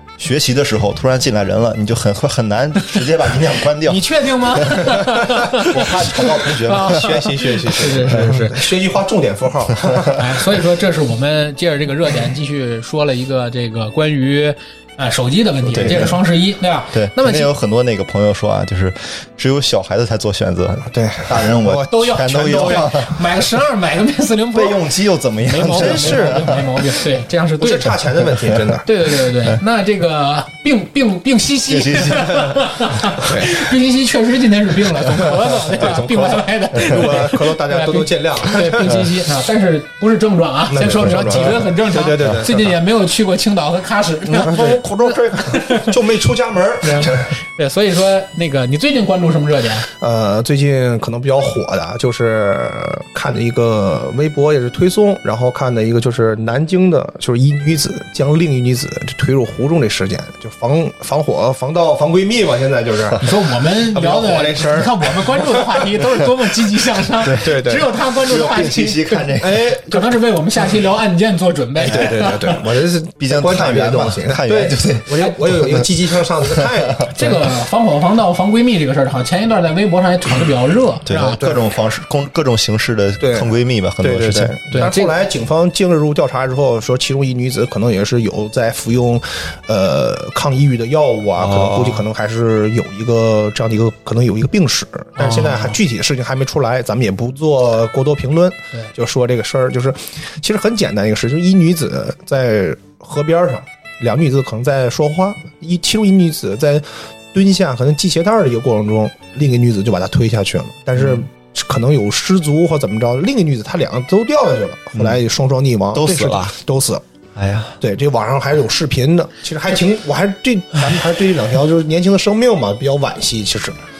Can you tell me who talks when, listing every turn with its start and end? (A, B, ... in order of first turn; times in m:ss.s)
0:00.2-0:04.8 A
0:03.8-0:08.7 B
0:05.5-0:08.0 A
0:06.9-0:10.2 C
0:10.1-0:17.5 B
0:15.7-0:16.1 A
0:15.8-0:16.1 C
0:16.9-0:23.2 A
0:20.9-0:23.0 C
0:21.8-0:24.8 B
0:24.5-0:26.7 A
0:25.4-0:46.0 B
0:25.7-0:26.4 C
0:27.6-0:28.9 C
0:31.7-0:33.0 A
0:33.2-0:33.6 C
0:35.6-0:39.0 C
0:40.7-0:42.7 C
0:40.8-0:41.7 A
0:44.3-0:47.3 C
0:46.8-0:49.9 B
0:50.0-1:05.8 C
1:03.2-1:12.7 B
1:07.3-1:07.9 C
1:08.1-1:09.8 A
1:09.4-1:10.1 C
1:11.8-1:17.3 C
1:13.2-1:17.1 A
1:17.1-1:21.4 B
1:21.0-1:24.8 A
1:21.4-1:21.6 C
1:23.2-1:23.5 C
1:24.0-1:57.0 C
1:24.7-1:25.2 B
1:31.4-1:32.0 A
1:35.2-1:35.8 B
1:51.0-1:51.2 A
1:55.9-1:56.5 A
1:57.3-1:57.8 A
1:57.8-2:03.8 C